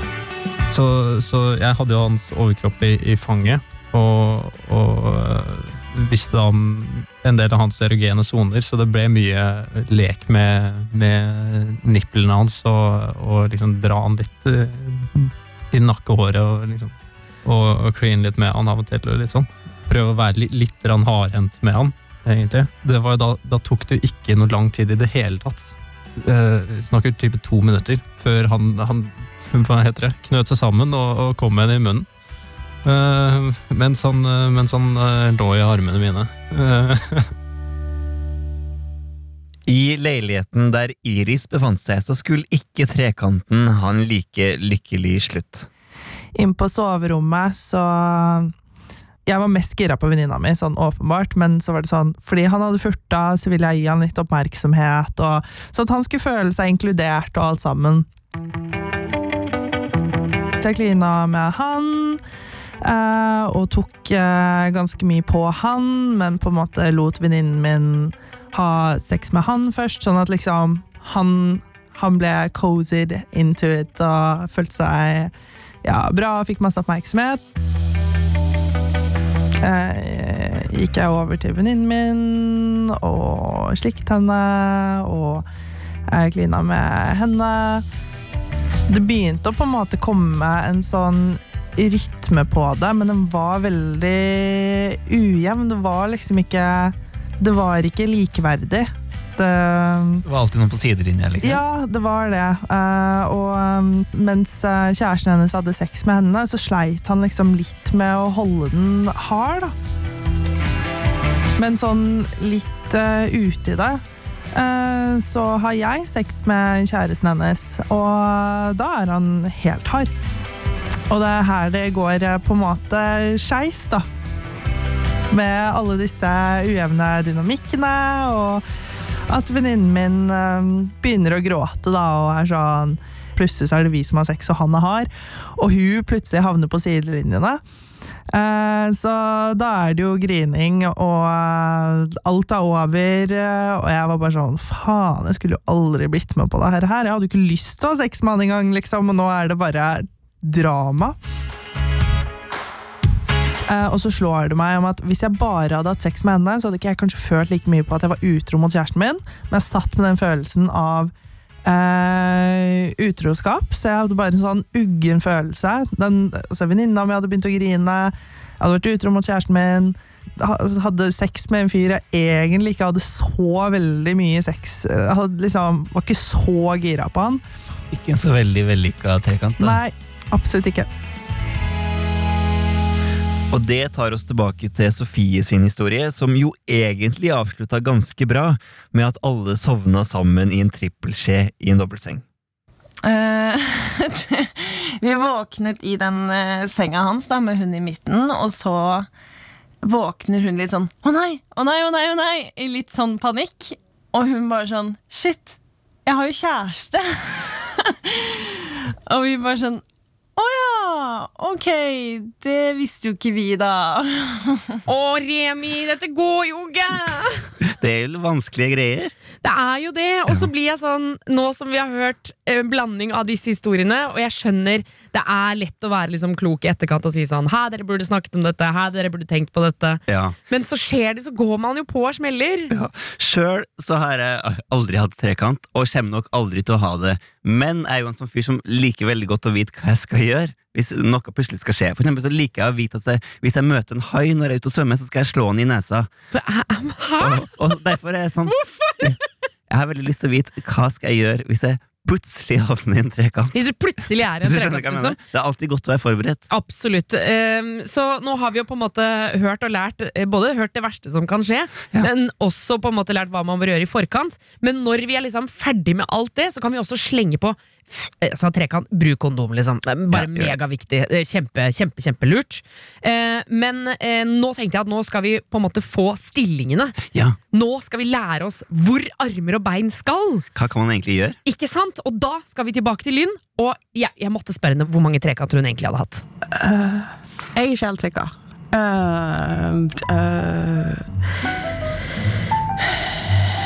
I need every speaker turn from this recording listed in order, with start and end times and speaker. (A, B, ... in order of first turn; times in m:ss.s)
0:00.7-0:16.9 A
0:17.4-0:32.1 A
0:32.8-0:37.3 A
0:39.7-0:45.7 B
0:46.3-0:48.5 C
0:49.2-0:58.1 C
1:00.6-1:02.2 C
1:02.8-1:15.3 C
1:15.8-1:17.4 C
1:19.6-1:25.4 C
1:26.1-1:27.8 C
1:28.9-1:40.2 C
1:40.2-1:41.6 B
1:41.4-1:49.7 C
1:51.6-1:54.0 C
1:54.5-2:00.1 C
2:01.1-2:04.0 C
2:05.3-2:08.6 C
2:09.3-2:17.6 C
2:18.3-2:31.2 C
2:33.7-2:41.1 C
2:41.6-2:57.4 C
2:57.9-2:59.8 B
2:59.6-3:00.9 C
3:03.5-3:12.2 B
3:13.0-3:19.1 D
3:19.8-3:28.5 D
3:29.1-3:29.8 D
3:30.4-3:34.7 D
3:34.8-3:37.5 E
3:37.6-3:39.1 B
3:39.4-3:52.7 E
3:50.1-3:50.3 B
3:52.7-4:06.1 B
4:06.3-4:07.5 E
4:07.2-4:09.2 B
4:08.5-4:09.1 E
4:09.7-4:13.5 B
4:13.5-4:15.2 E
4:14.4-4:16.4 B
4:16.5-4:37.0 E
4:30.1-4:30.5 B
4:37.1-4:37.4 B
4:37.5-4:40.4 E
4:40.5-4:41.4 B
4:41.4-4:46.2 E
4:46.5-4:51.0 F
4:52.8-4:53.2 F